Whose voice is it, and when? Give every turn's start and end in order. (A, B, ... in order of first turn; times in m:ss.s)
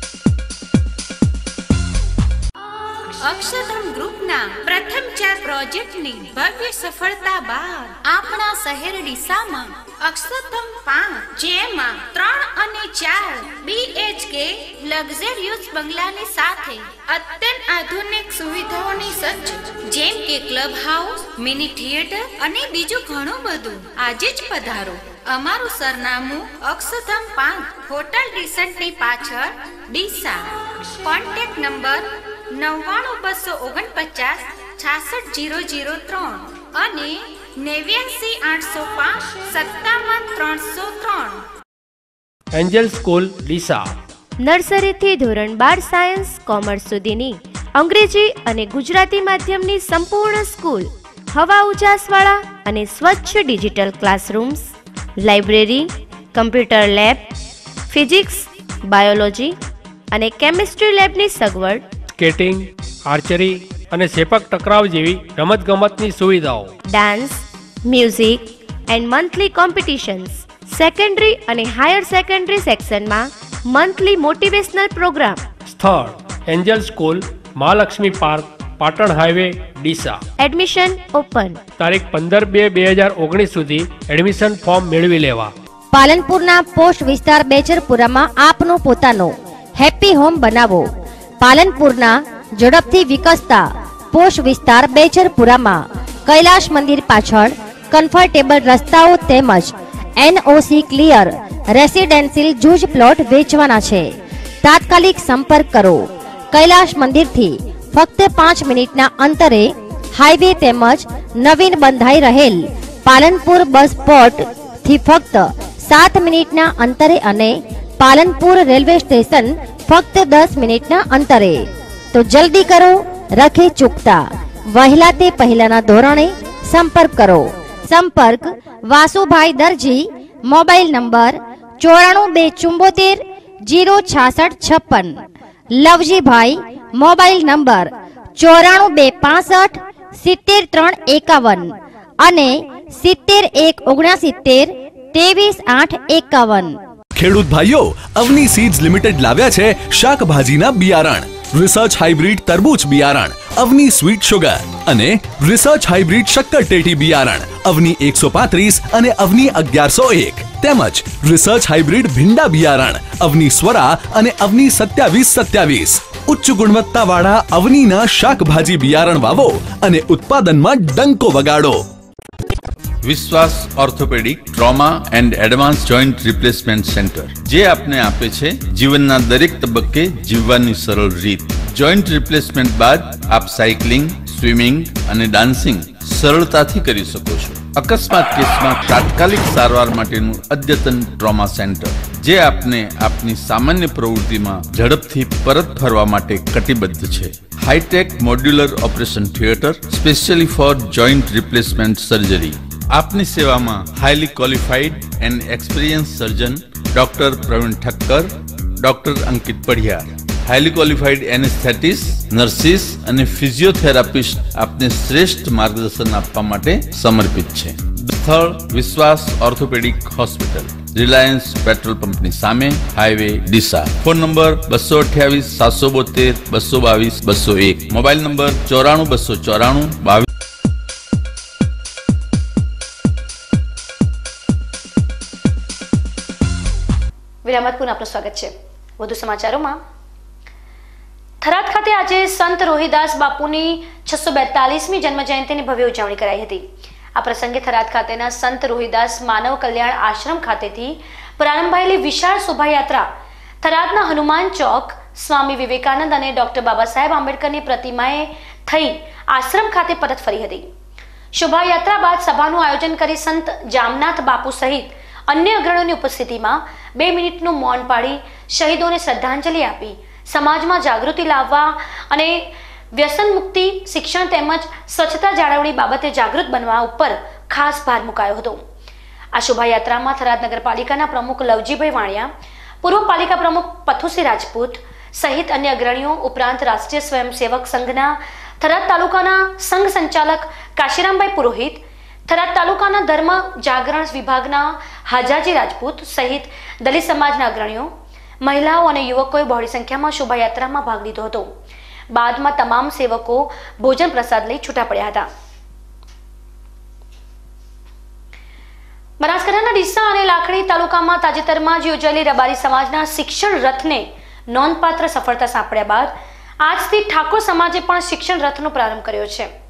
0:03.1-0:41.4 A
0:42.5-0:43.9 B
0:44.4-0:54.7 C
0:55.2-0:57.2 C
0:57.9-0:59.6 C
1:00.1-1:01.8 C
1:02.2-1:06.7 B
1:06.9-1:15.4 C
1:15.7-1:20.2 B
1:20.4-1:21.6 C
1:21.8-1:25.5 B
1:25.9-1:30.9 D
1:31.4-2:15.2 D
2:15.7-2:26.8 D
2:27.2-2:51.8 E
2:53.0-3:50.2 F
3:57.4-3:59.8 G
4:01.4-4:13.1 G
4:13.6-4:20.7 G
4:21.3-4:38.6 G
4:39.3-4:42.3 G
4:42.8-5:01.5 G
5:02.1-5:05.3 G
5:09.2-5:19.5 G